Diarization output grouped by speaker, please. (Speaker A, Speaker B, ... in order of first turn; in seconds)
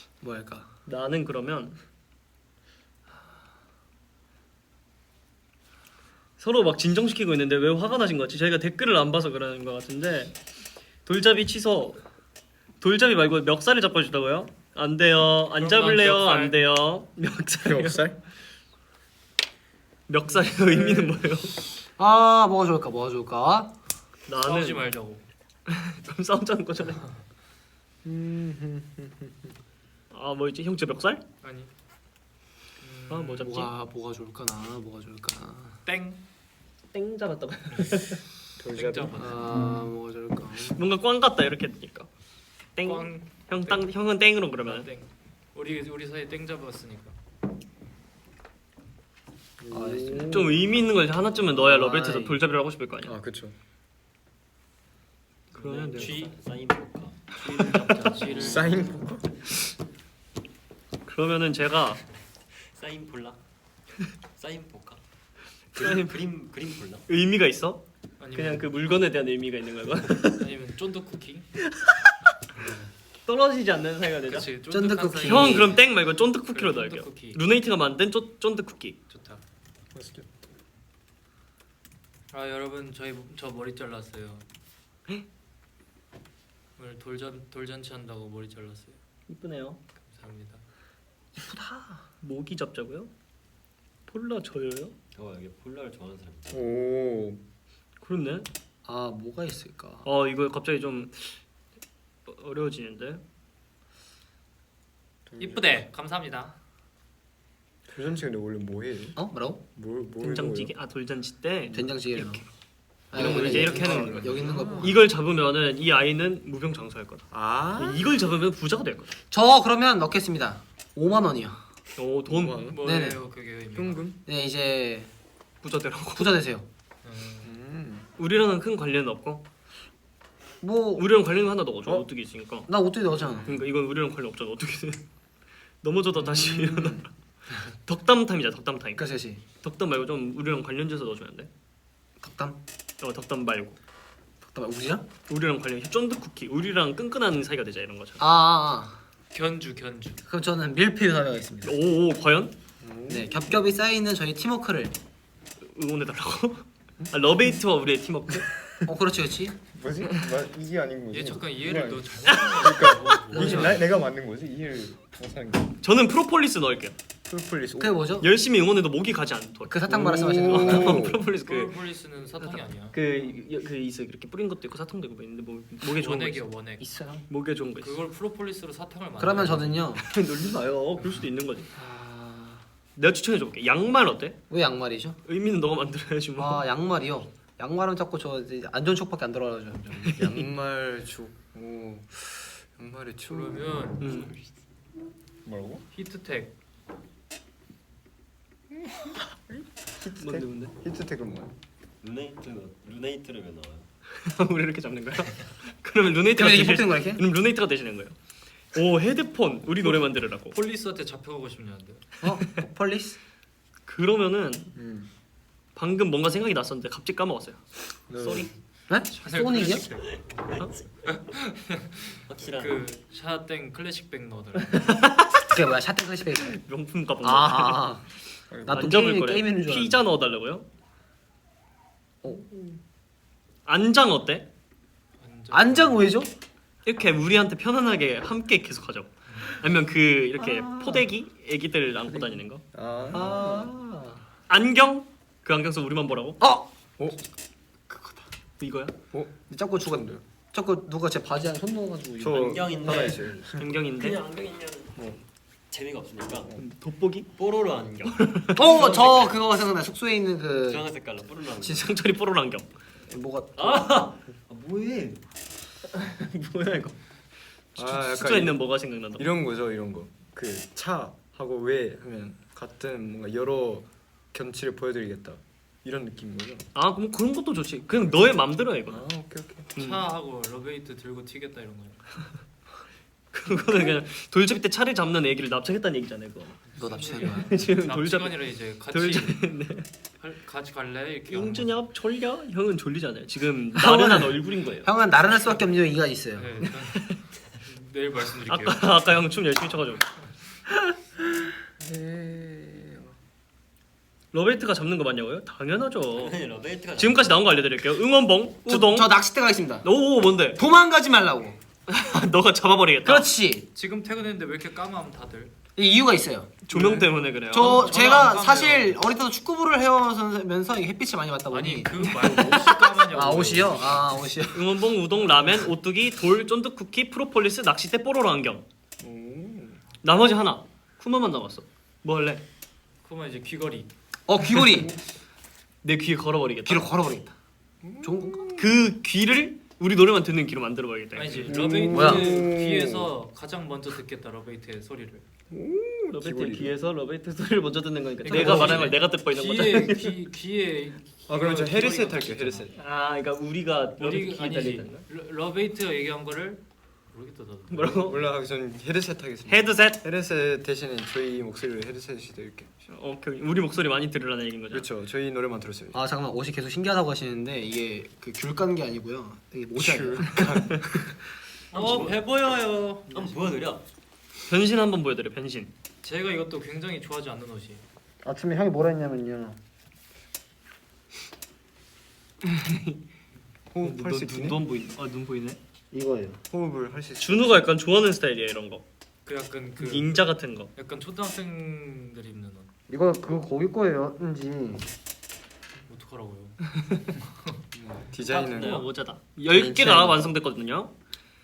Speaker A: 0.2-0.7, 22.0-23.7, 33.4-35.8, 39.1-40.8, 49.7-50.5, 51.5-52.4, 74.7-75.8, 91.4-92.0, 98.8-100.0, 109.2-109.6, 111.7-112.4, 113.1-115.0, 119.3-121.6, 122.8-123.2, 124.2-125.1, 126.1-126.7, 130.6-131.0, 132.7-133.5, 138.9-139.4, 142.2-142.6, 144.4-145.0, 148.2-149.0, 150.3-151.8, 153.1-154.9, 158.8-159.6, 163.3-163.7, 167.8-168.3, 169.7-171.1, 176.8-177.2, 179.2-180.0, 181.7-182.6, 184.5-185.2, 186.4-190.2, 206.3-207.2, 212.2-213.2, 218.1-219.8, 225.5-226.6, 227.2-228.0, 228.7-230.0, 232.2-232.8, 235.5-236.3, 240.7-240.9, 243.1-244.2, 246.4-246.7, 247.9-248.2, 249.5-253.2, 258.6-260.8, 263.1-264.0, 286.8-287.5, 293.8-296.5, 308.7-309.9, 310.6-311.6, 313.0-313.7, 315.8-316.5, 317.5-324.7, 334.3-334.9, 336.6-337.3, 338.0-338.4, 341.9-342.4, 365.9-370.9, 378.2-379.6, 385.9-386.4, 392.9-394.8
Speaker B: 0.9-1.8, 6.4-10.3, 11.0-12.0, 12.8-18.0, 20.1-21.6, 24.3-24.9, 25.7-27.1, 30.1-31.2, 33.1-33.7, 36.9-38.2, 40.7-42.1, 42.8-44.9, 50.3-53.1, 55.5-56.2, 57.6-57.9, 61.0-62.0, 65.8-66.1, 67.1-67.8, 68.3-70.5, 73.2-74.5, 75.2-79.0, 89.3-89.8, 92.2-93.1, 94.1-94.9, 98.0-98.5, 100.0-101.4, 102.2-103.2, 110.2-112.5, 113.1-119.1, 122.0-122.6, 125.6-126.4, 128.2-129.4, 130.9-132.7, 133.4-135.0, 135.8-139.1, 139.6-141.5, 143.0-143.8, 145.3-148.2, 151.6-152.5, 155.7-158.5, 162.3-163.6, 165.8-166.9, 168.2-171.8, 172.4-176.5, 177.3-178.0, 180.0-181.7, 182.9-184.4, 185.2-186.6, 190.1-190.3, 194.0-194.3, 200.1-200.7, 204.2-208.1, 208.7-210.6, 213.8-214.7, 215.8-218.5, 224.7-225.4, 226.4-228.0, 228.7-230.7, 233.7-234.5, 236.8-242.6, 244.5-246.4, 248.6-248.9, 253.6-254.2, 256.6-257.3, 258.0-258.7, 261.6-262.7, 265.9-267.0, 267.8-269.3, 276.8-279.0, 279.8-280.1, 283.3-286.6, 287.4-289.9, 291.3-294.9, 296.9-297.2, 298.5-300.0, 304.3-306.3, 307.0-309.1, 309.8-310.6, 311.9-313.3, 316.7-317.9, 324.5-328.6, 330.0-332.4, 335.8-336.9, 338.6-341.6, 346.1-350.2, 352.8-355.0, 357.7-358.2, 359.5-360.0, 362.9-364.9, 374.5-375.7, 383.8-385.6, 387.2-388.8, 389.8-390.7, 398.4-400.9
Speaker C: 15.6-16.6, 24.4-25.2, 31.4-31.7, 32.8-33.5, 35.9-36.2, 37.7-38.0, 38.7-39.7, 42.8-43.9, 44.6-47.2, 55.9-56.3, 57.3-58.8, 68.2-68.7, 70.4-71.5, 72.5-72.9, 74.3-75.8, 76.5-77.4, 79.1-79.4, 82.3-84.4, 86.8-89.0, 89.9-90.6, 105.4-106.5, 122.6-124.0, 127.0-127.5, 149.3-150.2, 161.1-163.8, 171.3-172.9, 175.8-176.8, 177.8-179.8, 193.3-194.1, 195.9-196.5, 209.8-212.1, 219.1-220.2, 221.1-224.9, 235.2-236.1, 239.3-239.5, 242.9-243.2, 279.8-282.0, 286.7-289.4, 290.2-291.8, 296.4-298.8, 313.7-315.5, 316.7-318.9, 321.5-324.1, 333.0-333.9, 341.1-345.2, 348.2-352.7, 354.0-358.2, 371.7-373.4, 376.0-377.8, 389.2-390.2, 390.7-392.7, 395.9-397.6
Speaker D: 17.6-18.2, 20.6-21.2, 28.0-29.5, 38.6-39.2, 49.6-50.6, 53.0-53.5, 58.3-59.3, 79.9-80.4, 96.5-97.4, 105.2-105.8, 107.9-109.2, 109.8-110.7, 113.1-115.0, 117.3-118.0, 122.2-122.8, 123.7-124.2, 127.4-128.1, 133.1-133.7, 136.1-137.0, 152.8-153.4, 159.7-165.8, 167.3-168.1, 169.9-171.2, 190.1-193.9, 195.4-195.8, 199.5-201.5, 214.8-215.1, 228.5-228.9, 242.7-243.7, 249.8-250.2, 252.2-253.5, 267.8-268.6, 269.1-276.7, 278.9-279.7, 301.8-303.1, 329.0-329.8, 337.8-338.8, 341.5-343.1, 345.5-346.7, 348.3-349.0, 351.3-352.8, 357.9-362.7, 364.7-366.0, 369.8-370.8, 383.7-384.6, 386.5-387.7, 397.7-398.8, 399.5-400.2
Speaker E: 55.5-57.3, 62.6-63.4, 64.4-65.0, 65.8-67.0, 95.1-96.7, 194.0-194.4, 202.0-203.9, 220.1-221.2, 222.3-222.9, 252.3-255.0, 255.7-256.5, 257.4-259.4, 260.6-261.9, 263.6-265.2, 306.1-307.4, 371.7-372.2, 373.1-373.8, 398.3-398.9